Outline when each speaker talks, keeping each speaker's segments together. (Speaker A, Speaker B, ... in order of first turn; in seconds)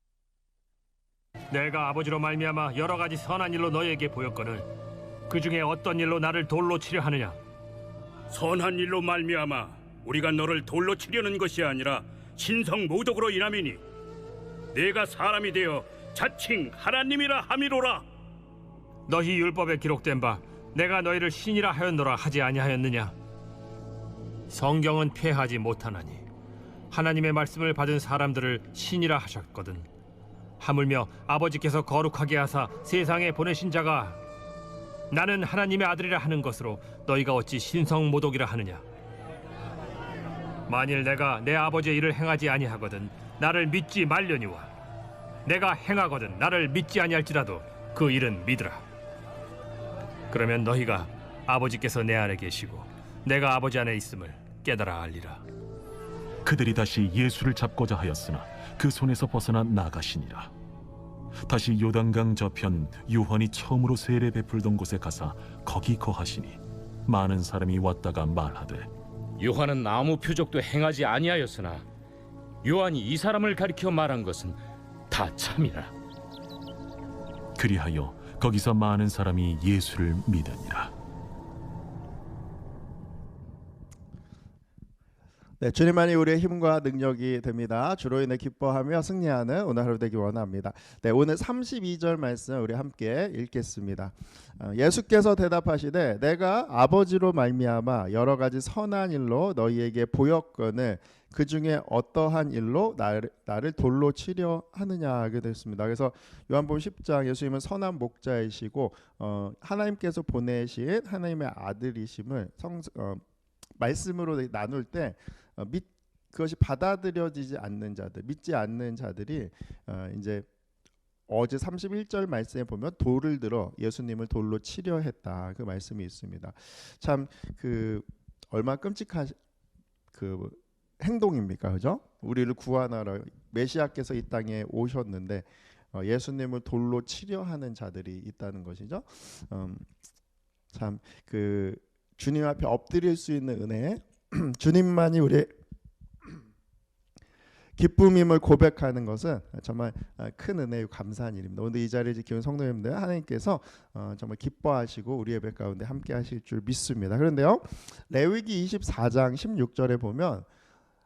Speaker A: 1.5-4.7, 5.3-7.4, 19.1-23.1, 24.5-26.2, 26.9-29.9, 30.6-34.2, 35.1-38.8, 40.7-44.7, 45.5-48.8, 50.3-55.4
Speaker B: 8.3-13.8, 14.7-18.1
Speaker C: 56.5-60.5, 61.4-68.9, 77.6-80.9
Speaker D: 69.4-71.9, 72.6-74.6, 75.1-75.9
Speaker E: 85.6-113.2, 113.8-120.5, 121.3-129.4, 130.1-139.9, 140.7-145.5, 147.8-160.5